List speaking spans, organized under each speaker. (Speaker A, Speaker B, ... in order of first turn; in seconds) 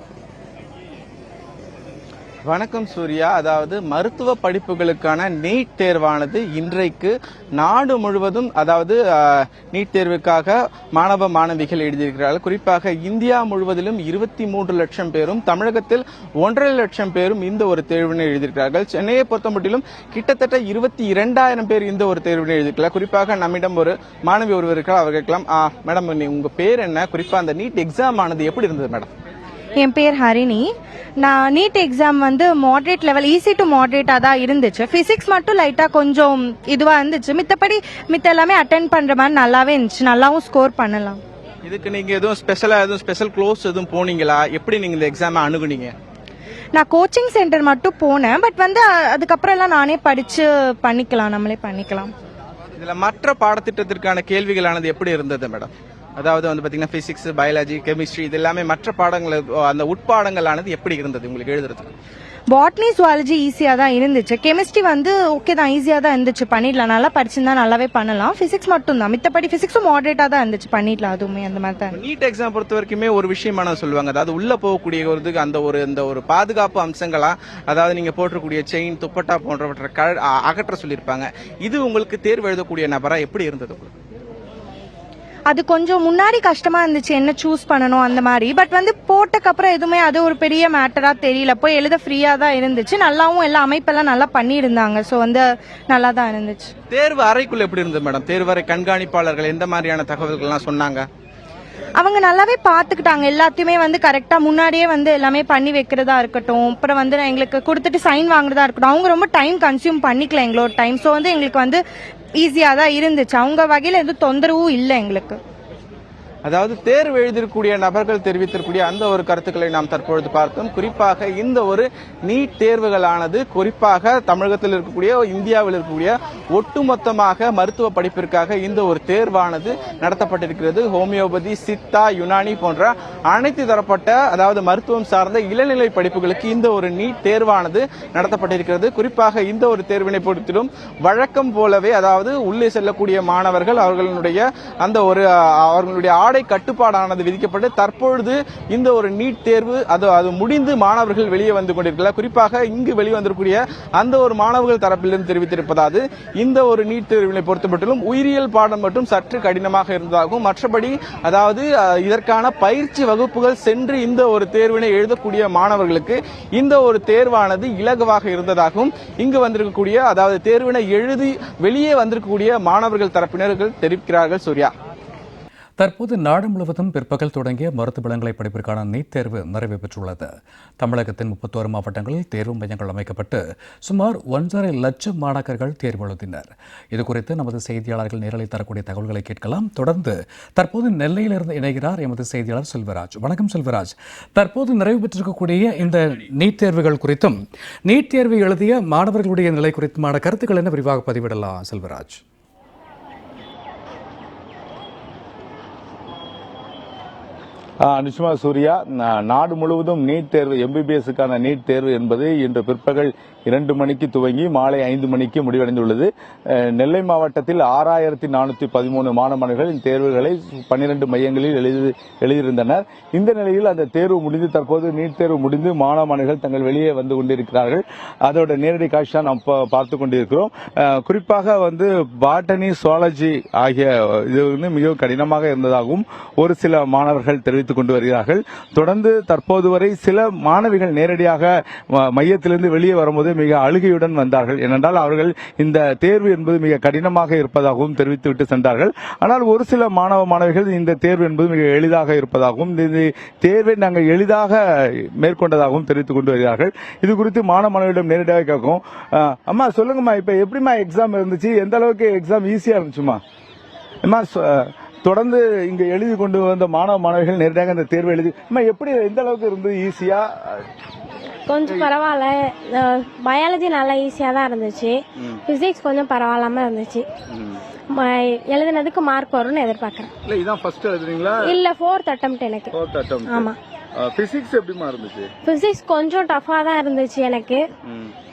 Speaker A: 2.5-29.1, 41.6-46.0, 52.8-61.9, 71.9-83.9, 96.9-101.1, 116.5-174.7
Speaker B: 29.8-30.7, 31.2-41.2, 46.8-52.1, 62.5-72.0, 85.5-96.7, 102.0-111.8, 112.4-115.4
Speaker C: 175.8-180.3, 180.8-197.3, 197.9-202.2
Speaker D: 207.8-263.2, 264.0-270.7, 277.3-277.6, 280.2-281.6, 282.7-285.3, 287.9-288.1
Speaker E: 271.5-277.1, 277.9-280.1, 281.4-282.7, 283.3-283.6, 285.4-287.6